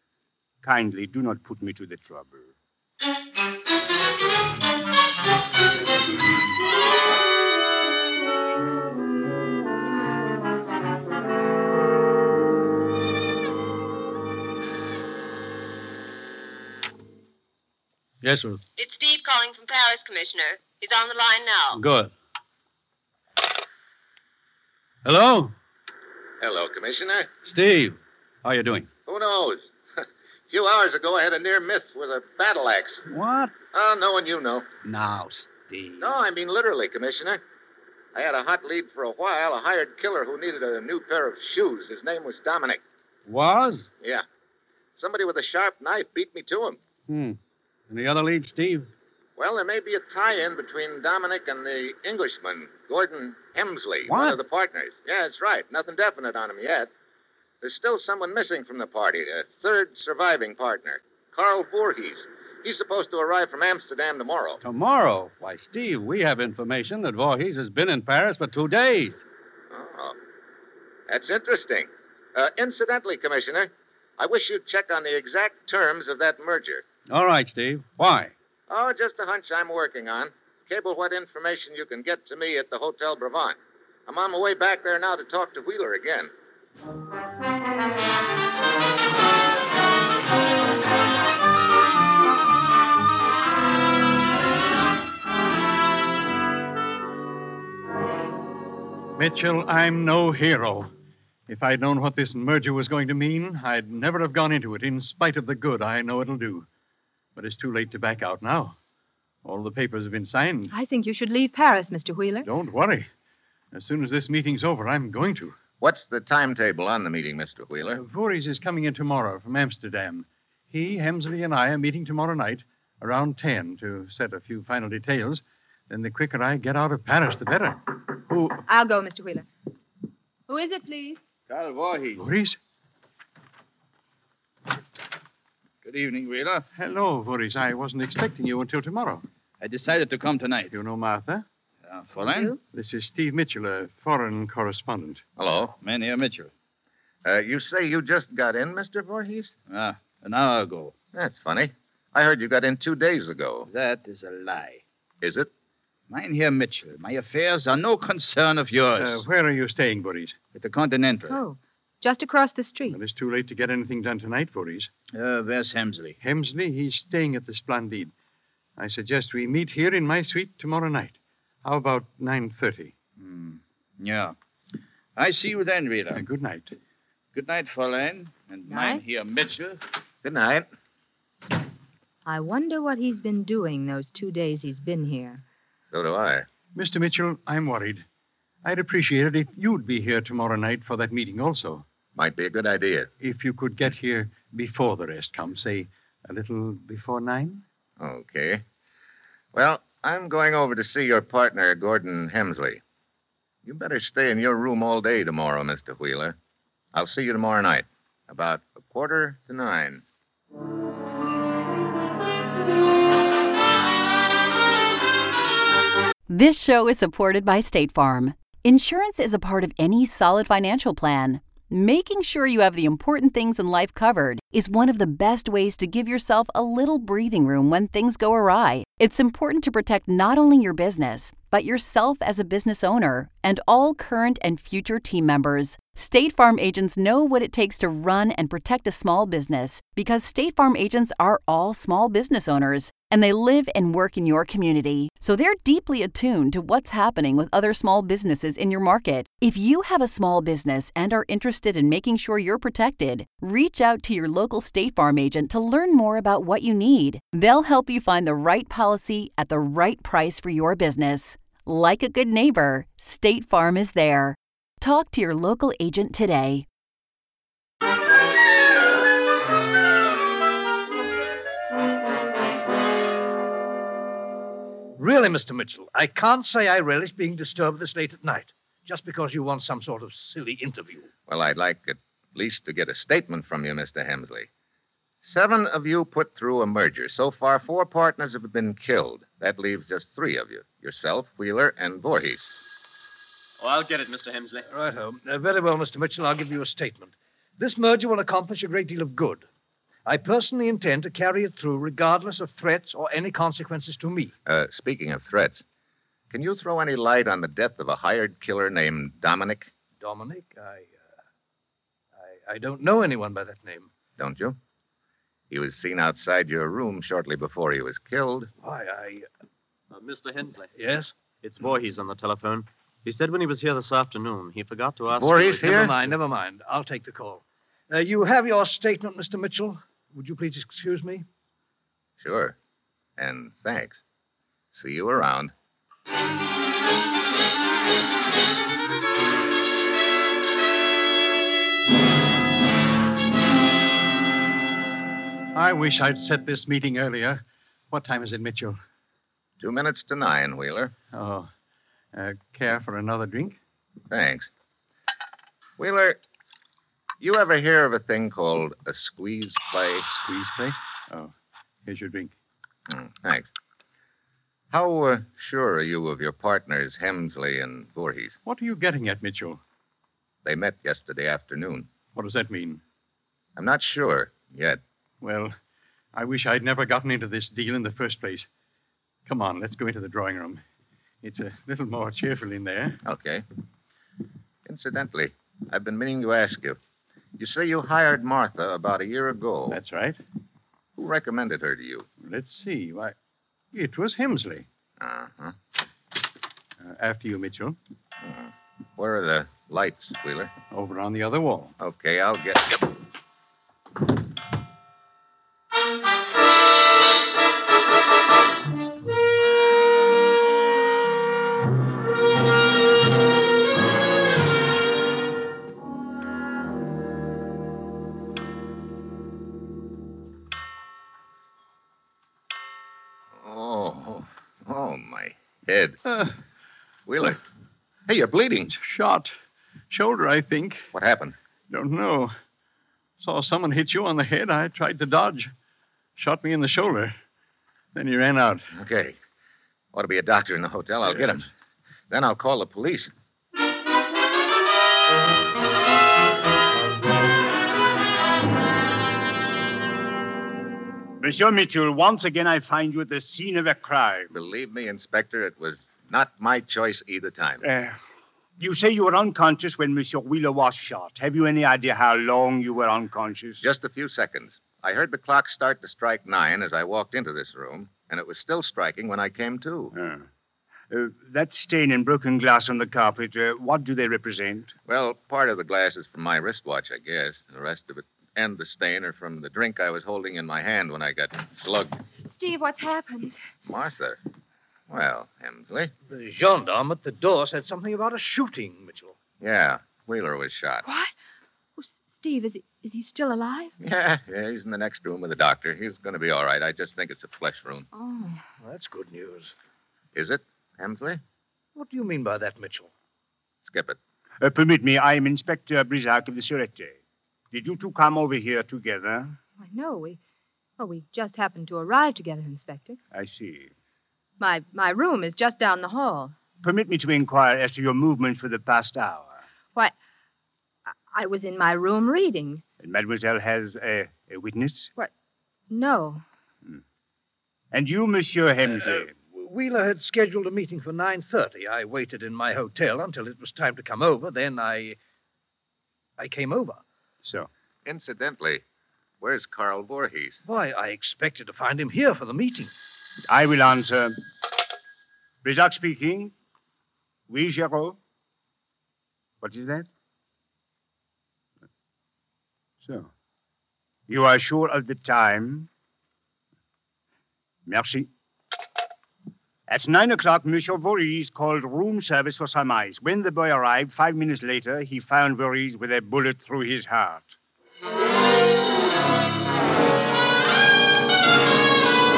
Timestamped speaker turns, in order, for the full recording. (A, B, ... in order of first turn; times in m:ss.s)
0:00.6-0:02.5 A
0:18.2-0:18.6 B
0:18.8-0:21.8 C
0:21.8-0:22.1 B
0:25.0-0:25.5 B
0:26.4-0:27.3 D
0:27.4-0:28.9 B
0:29.1-0:33.0 D
0:33.1-0:33.5 B
0:33.7-0:34.7 D
0:34.8-0:36.1 B
0:36.0-0:37.4 D
0:38.1-0:42.8 D
0:43.3-0:43.9 B
0:45.0-0:46.8 D
0:47.1-0:47.4 B
0:47.9-0:48.9 B
0:49.4-0:56.9 D
0:54.1-0:54.4 B
0:57.6-1:04.6 D
1:04.6-1:09.2 B
1:09.7-1:10.2 D
1:11.1-1:16.8 D
1:17.1-1:18.3 B
1:18.7-1:26.3 D
1:39.2-1:40.9 E
1:41.5-1:46.7 E
1:47.4-1:48.8 E
1:49.4-1:50.7 E
1:50.7-1:52.5 F
1:52.4-1:53.1 E
1:53.7-1:55.6 E
1:55.8-1:58.0 D
1:57.9-2:08.6 E
2:08.7-2:09.5 F
2:10.5-2:11.2 F
2:11.5-2:12.3 G
2:12.2-2:12.6 E
2:15.8-2:16.7 G
2:16.8-2:19.2 E
2:19.6-2:20.7 G
2:20.7-2:21.4 E
2:21.8-2:22.6 G
2:22.3-2:22.6 F
2:22.7-2:25.2 E
2:25.4-2:25.7 D
2:25.8-2:26.5 G
2:27.2-2:29.5 D
2:29.7-2:31.0 G
2:31.1-2:33.7 D
2:33.7-2:34.8 G
2:35.2-2:35.5 D
2:36.1-2:39.2 G
2:39.0-2:40.4 E
2:40.5-2:41.4 G
2:41.3-2:43.0 F
2:42.9-2:44.9 E
2:45.1-2:46.2 G
2:46.2-2:48.1 E
2:48.8-2:53.0 E
2:53.2-2:54.4 G
2:55.2-2:56.2 G
2:56.1-2:56.8 E
2:57.3-2:59.8 G
2:58.7-2:59.0 F
3:00.2-3:00.7 D
3:02.3-3:05.4 F
3:05.9-3:06.5 D
3:06.8-3:08.0 E
3:08.6-3:11.8 E
3:12.2-3:13.1 D
3:13.2-3:17.6 E
3:18.0-3:18.6 D
3:19.5-3:22.8 D
3:23.6-3:26.4 D
3:26.9-3:30.0 D
3:36.3-4:26.7 H
4:35.0-4:41.1 I
4:41.3-4:44.5 D
4:45.2-4:52.5 D
4:53.6-4:54.6 J
4:54.7-4:59.4 I
5:00.1-5:04.3 I
5:04.5-5:05.6 D
5:06.3-5:09.7 D
5:10.0-5:11.2 I
5:12.2-5:13.9 I
5:14.2-5:14.6 D
5:15.5-5:18.5 D
5:18.6-5:19.3 I
5:19.9-5:26.1 J
5:20.8-5:21.1 I
5:25.2-5:25.9 D
5:25.6-5:31.2 I
5:32.2-5:32.6 D
5:33.2-5:34.0 D
5:34.7-5:35.5 D
5:45.6-5:48.8 E
5:49.6-5:50.9 D
5:51.1-5:51.5 E
5:52.1-5:53.6 E
5:54.1-5:54.5 D
5:55.8-5:56.2 D
5:57.2-6:00.1 D
6:00.2-6:01.3 E
6:01.9-6:02.3 E
6:02.9-6:03.5 D
6:04.7-6:08.4 D
6:08.4-6:09.6 E
6:10.4-6:11.9 D
6:12.1-6:12.8 E
6:13.6-6:14.8 D
6:15.2-6:15.6 E
6:16.1-6:18.5 E
6:19.3-6:20.6 E
6:21.2-6:23.0 E
6:23.0-6:23.4 D
6:24.7-6:26.8 D
6:27.4-6:29.8 D
6:29.7-6:30.2 E
6:31.0-6:32.1 D
6:32.2-6:33.2 E
6:33.7-6:34.7 E
6:35.0-6:35.6 D
6:36.8-6:37.8 E
6:38.2-6:40.5 D
6:40.7-6:41.7 E
6:41.8-6:42.9 D
7:03.4-7:06.0 D
7:06.1-7:06.4 E
7:07.1-7:07.4 D
7:08.1-7:08.7 D
7:08.7-7:09.3 E
7:09.9-7:10.9 E
7:10.9-7:11.4 D
7:11.7-7:12.3 E
7:13.2-7:15.5 E
7:16.2-7:17.2 E
7:18.0-7:18.7 E
7:18.8-7:19.2 D
7:19.9-7:21.5 D
7:22.1-7:23.1 D
7:31.2-7:34.3 A
7:34.3-7:37.6 D
7:37.6-7:38.0 A
7:38.6-7:43.6 A
7:43.6-7:49.9 D
7:49.9-7:50.3 A
7:50.9-7:54.7 A
7:54.9-8:02.0 D
8:02.3-8:03.4 F
8:03.7-8:04.2 D
8:04.9-8:05.9 D
8:06.1-8:09.2 I
8:09.4-8:10.8 D
8:10.8-8:11.1 F
8:11.8-8:13.7 F
8:13.8-8:17.9 D
8:17.9-8:18.4 F
8:18.6-8:19.5 I
8:20.2-8:21.2 D
8:21.8-8:22.9 I
8:23.6-8:24.0 D
8:24.4-8:27.0 A
8:27.5-8:29.4 A
8:29.6-8:30.2 F
8:30.8-8:33.0 F
8:33.1-8:33.7 A
8:34.4-8:36.4 F
8:36.6-8:39.4 A
8:41.1-8:42.6 F
8:42.8-8:44.9 A
8:45.7-8:46.2 F
8:47.7-8:49.1 A
8:48.7-8:55.0 I
8:56.2-8:56.8 I
8:57.2-8:57.5 A
8:57.8-8:58.6 D
8:59.2-9:00.4 D
9:00.5-9:02.7 I
9:03.3-9:04.2 A
9:05.4-9:06.3 A
9:07.3-9:08.0 A
9:09.4-9:09.9 A
9:12.8-9:13.1 A
9:14.1-9:15.7 A
9:17.7-9:18.1 A
9:19.7-9:27.4 A